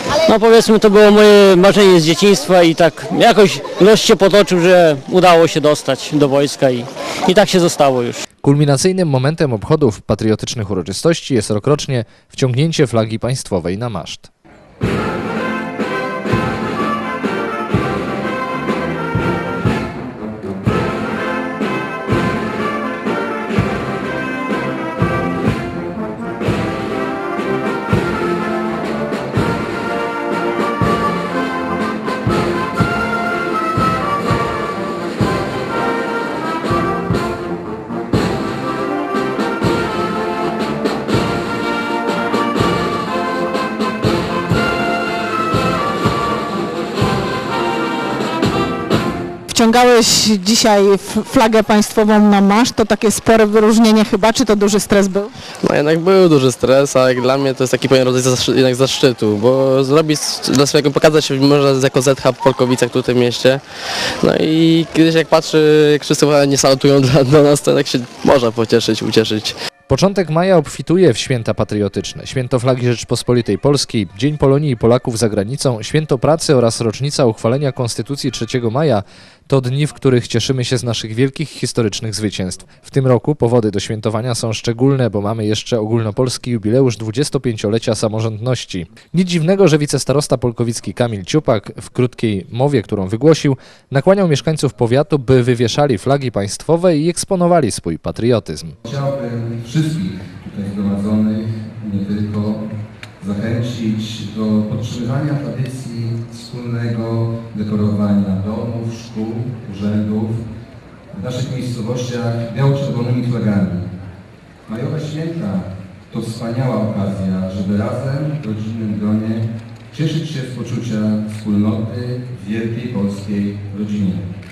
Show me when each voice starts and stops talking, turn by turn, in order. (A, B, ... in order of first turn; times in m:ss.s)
0:00.3-0:08.2 A
0:08.4-0:14.3 B
0:49.5-0:55.3 C
0:55.7-1:03.6 D
1:04.3-1:09.5 D
1:09.9-1:38.8 B
1:38.8-1:42.7 E
1:43.2-1:50.4 E
1:51.1-1:53.9 E
1:54.7-2:04.3 E